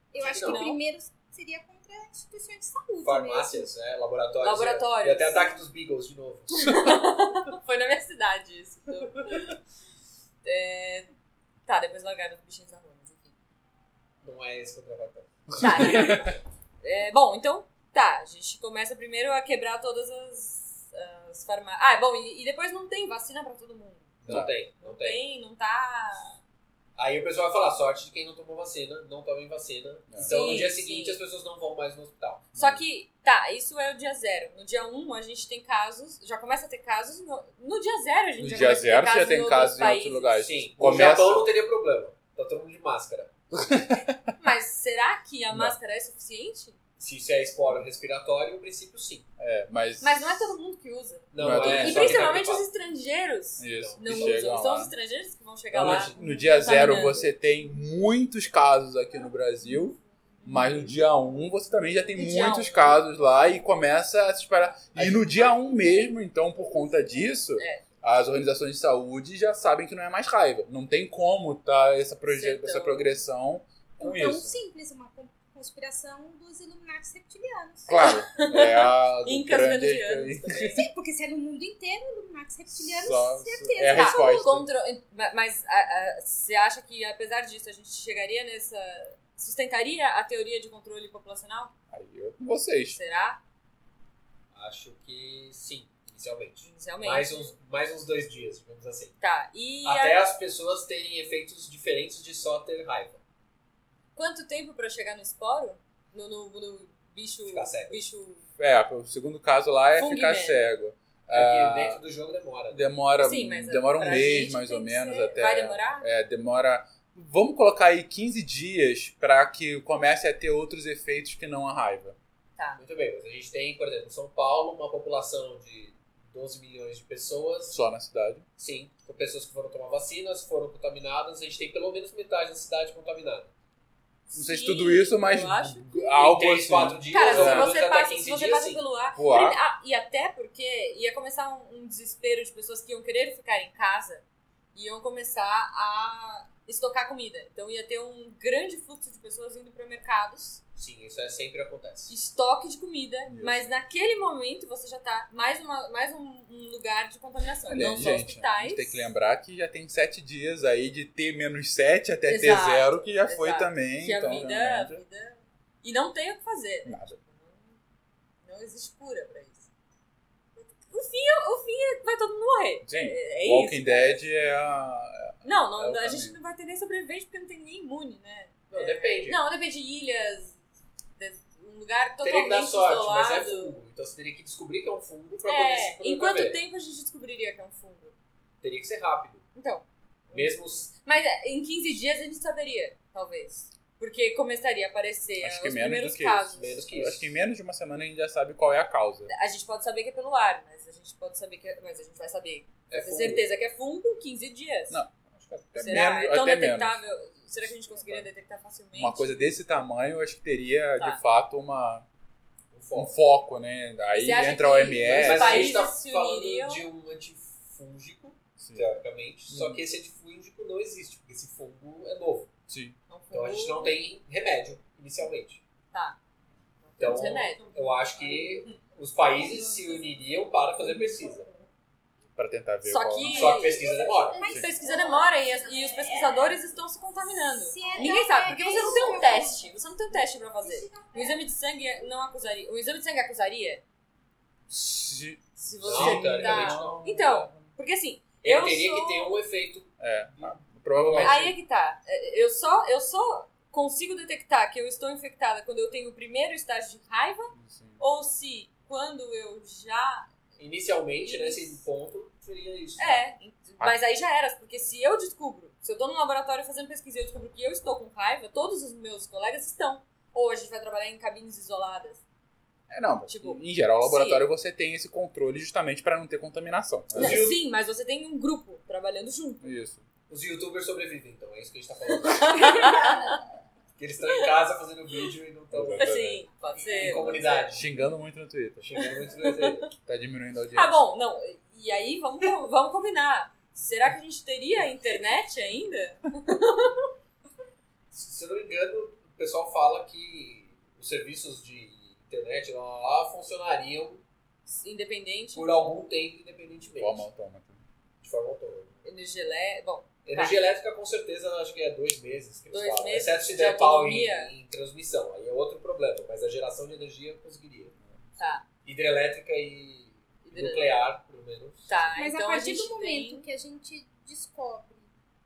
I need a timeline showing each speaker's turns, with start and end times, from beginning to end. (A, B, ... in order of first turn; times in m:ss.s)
0:00.1-0:03.7 A
0:00.2-0:00.7 B
0:00.2-0:00.8 C
0:03.0-0:06.8 B
0:04.4-0:05.6 C
0:06.6-0:09.5 C
0:10.4-0:11.1 C
0:11.7-0:13.3 C
0:14.2-0:16.3 B
0:15.5-0:16.3 D
0:15.6-0:26.4 C
0:24.2-0:25.2 B
0:24.3-0:24.5 D
0:27.0-0:32.5 B
0:30.3-0:31.2 C
0:32.6-0:32.8 D
0:32.6-0:40.4 C
0:38.4-0:41.5 D
0:40.4-0:43.3 B
0:43.6-0:44.2 D
0:44.4-0:46.8 C
0:45.5-0:45.8 D
0:47.0-0:49.3 B
0:49.4-0:50.5 D
0:50.0-0:57.3 C
0:51.3-0:52.7 B
0:51.4-0:52.4 D
0:53.6-0:54.9 D
0:53.8-0:54.4 B
0:55.7-1:14.6 D
0:55.8-0:56.2 B
1:02.2-1:03.0 C
1:05.0-1:05.3 B
1:07.6-1:07.8 C
1:12.3-1:13.2 C
1:14.0-1:18.0 A
1:17.9-1:20.8 D
1:17.9-1:20.8 C
1:20.6-1:24.6 A
1:22.7-1:24.7 D
1:23.9-1:31.7 C
1:31.9-1:33.0 D
1:32.9-1:33.4 C
1:34.5-1:39.2 B
1:36.6-1:37.5 C
1:39.2-1:40.2 C
1:39.8-1:43.2 B
1:44.2-1:48.4 C
1:47.5-1:48.0 B
1:48.6-1:52.0 D
1:50.0-1:50.7 C
1:51.3-1:52.9 B
1:52.7-2:02.2 D
1:53.2-1:56.1 C
2:02.8-2:07.8 B
2:07.7-2:08.4 D
2:08.6-2:13.5 B
2:14.3-2:16.2 C
2:14.3-2:17.7 D
2:15.9-2:18.8 B
2:17.1-2:24.2 C
2:19.2-2:19.6 D
2:24.8-2:30.6 C
2:30.8-2:32.1 B
2:32.1-2:39.0 C
2:33.3-2:33.7 D
2:37.7-2:45.0 D
2:42.3-2:47.8 C
2:46.8-2:47.2 D
2:48.4-2:49.7 C
2:50.6-2:54.2 C
2:52.8-2:56.4 D
2:55.4-3:00.6 C
2:58.7-2:59.4 B
3:01.2-3:03.7 C
3:02.2-3:06.6 B
3:05.4-3:08.1 C
3:08.6-3:09.5 B
3:09.6-3:10.5 C
3:10.3-3:10.9 B
3:11.0-3:16.8 C
3:15.4-3:19.3 D
3:16.6-3:17.3 B
3:19.3-3:25.0 C
3:22.9-3:23.4 B
3:24.9-3:27.0 D
3:25.8-3:29.4 C
3:27.6-3:28.3 D
3:29.0-3:32.1 D
3:32.7-3:33.1 B
3:32.9-3:35.8 D
3:34.1-3:36.8 C
3:35.0-3:42.5 B
3:38.6-3:38.9 D
3:39.5-3:39.8 D
3:42.7-3:43.0 D
3:43.1-3:44.1 C
3:43.3-3:45.6 B
3:45.9-3:46.2 C
3:46.8-3:47.6 C
3:47.0-3:51.5 B
3:52.4-3:53.7 D
3:52.9-3:53.8 C
3:53.2-3:54.5 B
3:54.3-3:55.4 A
3:54.5-4:03.8 C
3:57.6-3:59.6 A
4:00.6-4:01.4 A
4:04.7-4:07.7 D
4:05.6-4:09.3 C
4:05.9-4:07.0 B
4:08.4-4:11.5 B
4:10.0-4:11.5 D
4:11.2-4:20.3 C
4:17.5-4:18.0 D
4:20.6-4:23.2 B
4:21.2-4:21.8 C
4:23.0-4:32.2 C
4:32.9-4:37.4 D
4:33.3-4:34.5 C
4:37.2-4:37.6 B
4:37.2-4:39.6 C
4:39.6-4:40.0 D
4:40.3-4:43.4 B
4:42.3-4:43.4 C
4:44.0-4:46.2 B
4:45.7-4:46.5 D
4:45.9-4:47.7 C
4:46.8-4:47.9 B
4:47.7-4:49.0 D
4:48.8-4:49.9 B
4:49.4-4:49.8 C
4:50.0-4:51.0 D
4:50.7-4:57.1 C
4:58.1-5:04.2 B
5:04.7-5:05.9 C
5:05.6-5:07.2 B
5:07.0-5:07.8 D
5:08.2-5:09.0 B
5:09.0-5:10.6 C
5:10.2-5:18.0 B
5:12.7-5:14.5 C
5:18.0-5:18.6 D
5:18.4-5:18.6 C
5:18.8-5:22.0 B
5:20.4-5:20.9 C
5:21.9-5:23.5 C
5:22.2-5:25.1 A